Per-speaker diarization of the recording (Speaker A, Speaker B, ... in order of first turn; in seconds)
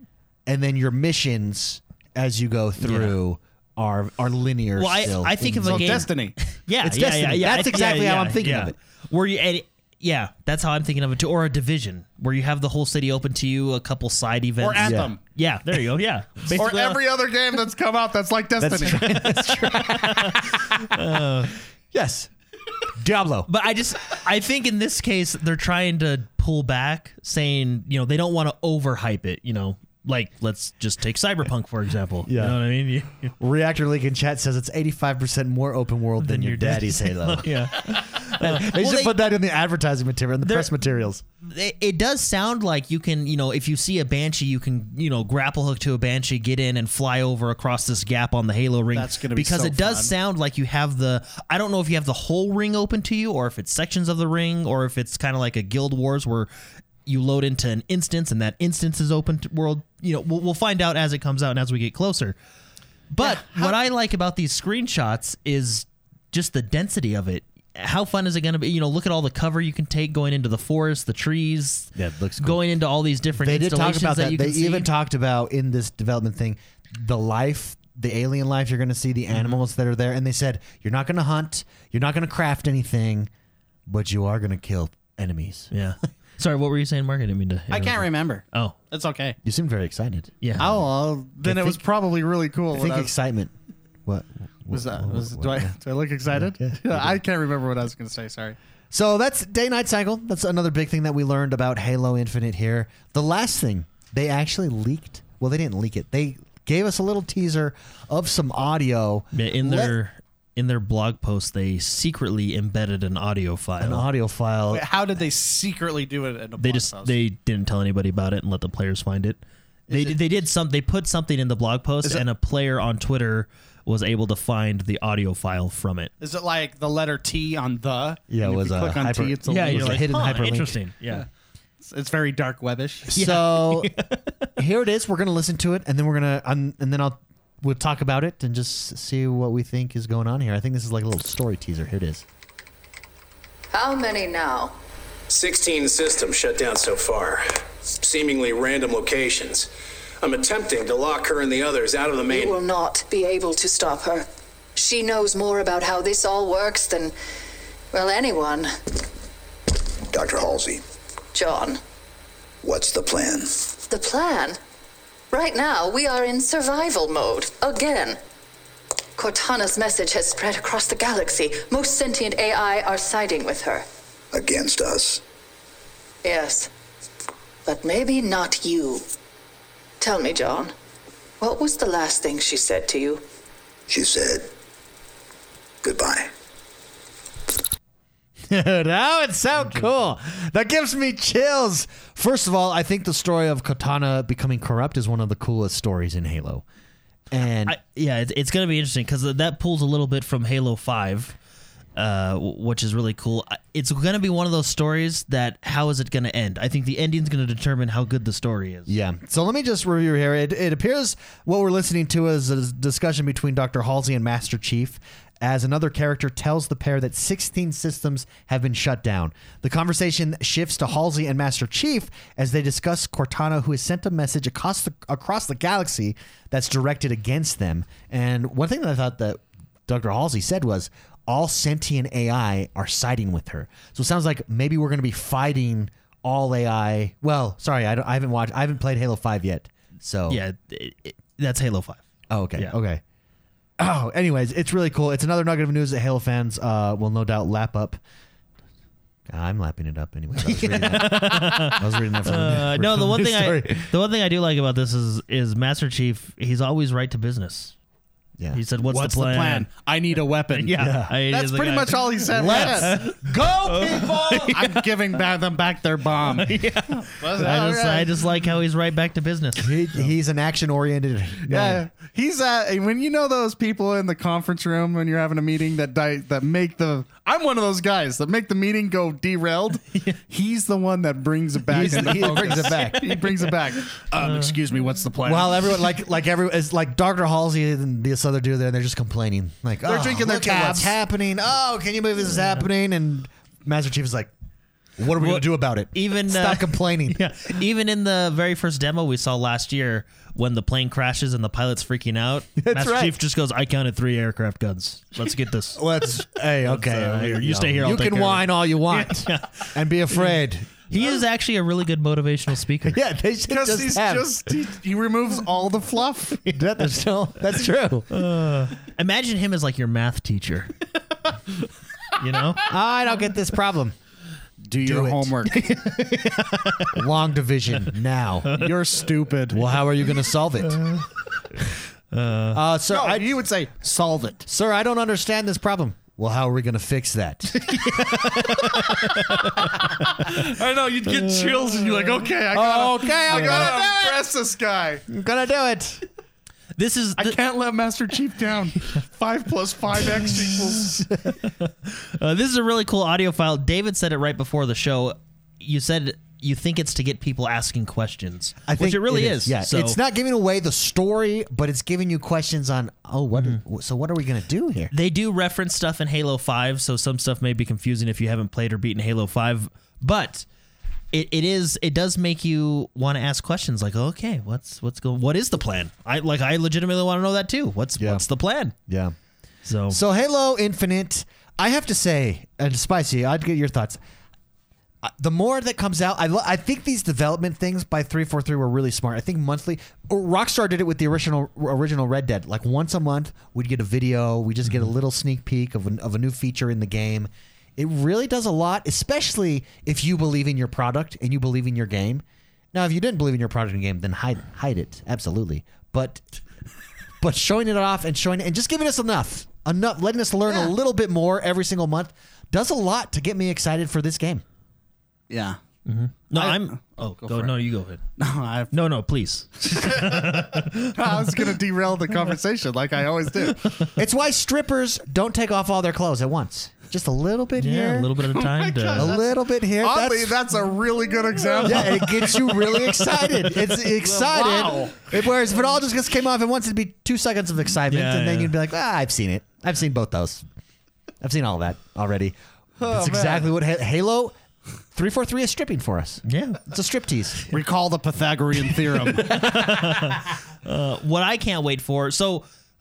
Speaker A: 0.5-6.1, 6.8-8.8, 14.8-15.1, 18.6-21.2, 21.9-22.3, 23.0-23.5, 32.3-32.6, 33.4-41.2, 72.0-72.6, 73.3-83.3, 83.9-85.7, 89.4-90.8, 91.4-91.8, 92.7-93.5, 94.0-95.7, 96.3-97.2, 98.9-110.0, 113.8-114.8, 128.3-130.8, 133.1-133.9, 134.6-142.2, 188.5-196.6, 197.3-197.8, 208.9-240.4, 242.3-243.0, 243.8-248.0, 249.3-253.9, 260.8-261.1, 262.3-264.6, 269.6-271.9, 281.7-283.4, 285.2-294.3, 295.0-297.2, 302.6-303.2, 305.8-310.8, 312.9-314.3, 316.5-318.1, 322.6-324.0, 324.8-326.4, 326.9-328.6, 329.5-330.9, 332.5-333.3, 334.5-338.4, 342.5-344.2, 345.1-346.1, 358.7-364.9, 378.0-378.2, 378.9-379.1, 379.9-384.0, 385.0-406.2, 407.2-414.4, 423.9-428.1, 429.0-430.4, 431.6-440.4, 441.2-444.4, 444.9-447.4
Speaker B: 2.8-3.2, 4.8-17.0, 19.0-21.6, 23.5-33.3, 36.2-39.1, 40.4-40.7, 41.4-56.5, 57.1-62.4, 63.1-74.9, 85.7-88.8, 90.4-90.7, 109.3-114.1, 116.6-126.1, 129.5-131.2, 133.2-134.5, 189.6-189.9, 197.6-201.4, 202.0-208.9, 240.3-242.1, 250.4-257.8, 258.5-259.7, 260.5-264.8, 266.3-269.7, 295.2-305.8, 306.6-310.3, 310.9-313.0, 318.1-320.7, 322.2-322.6, 325.6-327.0, 332.1-332.6, 337.6-340.4, 346.8-347.4, 351.4-360.0, 364.9-370.5, 371.1-378.8, 379.6-380.0, 415.9-418.0, 418.7-421.2, 423.6-424.0, 427.6-429.1, 431.6-433.2, 437.9-438.6, 446.3-446.6, 449.2-452.5
Speaker C: 5.6-6.4, 14.6-15.2, 16.5-19.2, 48.9-50.1, 63.2-63.8, 87.7-89.4, 90.6-93.1, 94.7-98.6, 114.7-117.2, 119.9-120.2, 126.2-130.1, 131.8-133.2, 258.9-260.8, 261.3-262.9, 264.5-268.2, 271.5-285.8, 289.8-290.9, 313.5-316.5, 324.7-325.6, 328.6-329.6, 332.9-334.4, 340.2-345.1, 347.2-351.1, 415.3-415.6, 416.3-417.5, 418.2-418.7, 419.7-423.7, 428.3-429.2, 429.8-432.4, 434.0-435.0, 442.8-443.5, 447.5-449.3
Speaker D: 143.7-144.7, 152.3-157.1, 157.9-158.7, 161.3-161.8, 163.8-164.6, 165.3-168.2, 169.2-173.9, 176.2-176.7, 177.7-179.1, 180.0-180.7, 181.4-183.2
Speaker E: 145.3-149.7, 150.2-152.6
Speaker F: 160.1-160.8, 162.6-163.7, 174.3-175.2, 183.9-184.5, 185.8-186.3